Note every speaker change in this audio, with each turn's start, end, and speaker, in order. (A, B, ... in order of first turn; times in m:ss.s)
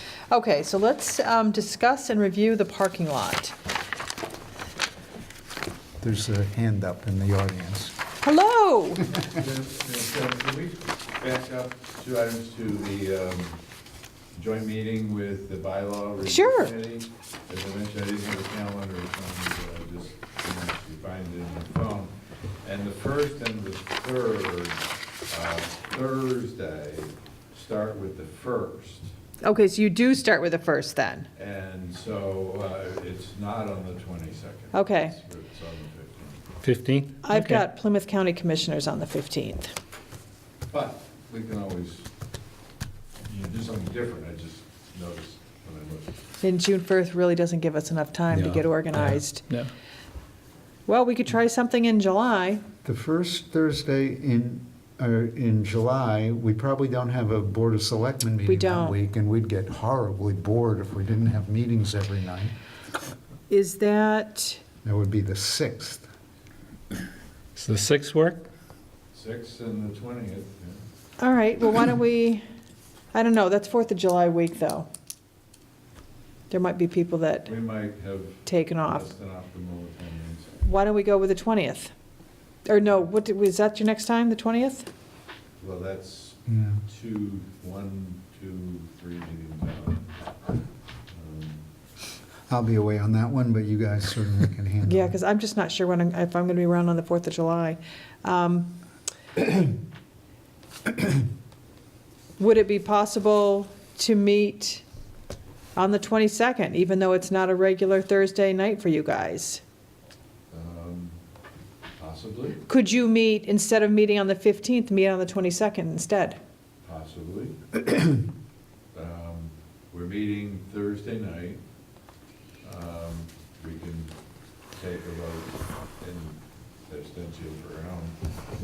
0:00.3-0:03.6 A
0:06.0-0:07.9 B
0:08.2-0:09.1 A
0:09.1-0:13.6 C
0:14.4-0:29.1 C
0:16.3-0:16.7 A
0:29.4-0:31.3 A
0:31.4-0:36.5 C
0:34.7-0:35.2 A
0:36.6-0:37.6 D
0:37.2-0:39.7 A
0:40.7-0:42.1 C
0:43.3-0:46.2 C
0:46.4-0:49.5 A
0:48.3-0:49.7 D
0:50.9-0:52.6 A
0:52.8-1:02.5 B
0:58.5-0:59.0 A
1:03.5-1:04.6 A
1:04.8-1:06.0 B
1:07.6-1:08.4 D
1:09.1-1:10.8 C
1:11.2-1:12.4 A
1:13.1-1:14.9 A
1:16.5-1:17.5 A
1:17.4-1:20.5 C
1:18.5-1:19.1 A
1:20.6-1:21.9 A
1:22.7-1:24.9 A
1:25.6-1:31.6 C
1:26.5-1:26.8 B
1:32.5-1:35.1 B
1:34.9-1:38.7 A
1:42.4-1:44.8 A
1:45.8-1:49.6 A
1:50.5-1:51.2 C
1:52.0-1:52.6 C
1:52.7-1:56.4 A
1:56.8-1:57.8 C
1:58.9-2:01.6 C
2:02.6-2:04.1 C
2:04.7-2:08.2 C